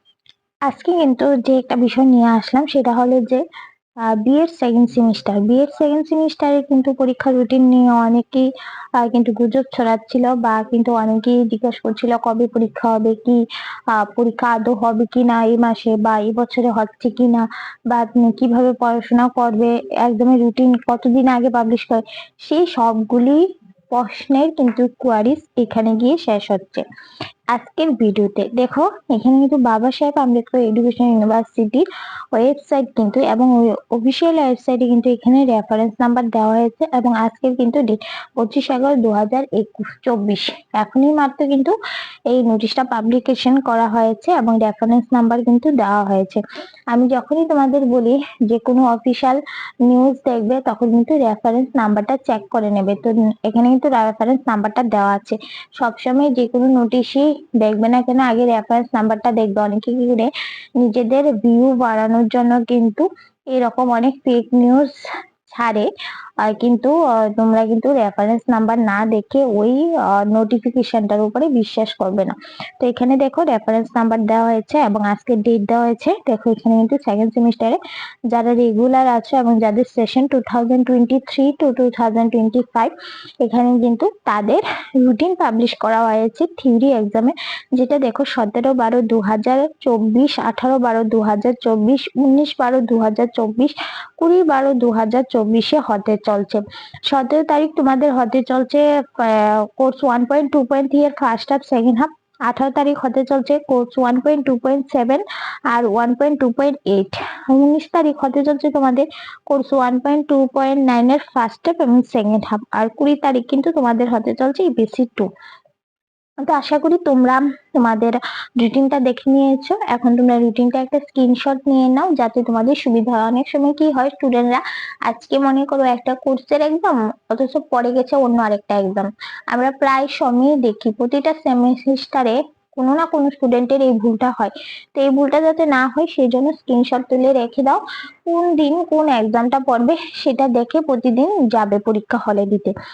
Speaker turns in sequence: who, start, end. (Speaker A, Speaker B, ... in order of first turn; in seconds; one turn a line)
Speaker A: 0.7-3.4
Speaker A: 4.0-26.9
Speaker A: 27.5-41.7
Speaker A: 42.3-64.9
Speaker A: 65.5-65.9
Speaker A: 66.4-77.8
Speaker A: 78.3-115.3
Speaker A: 116.5-142.7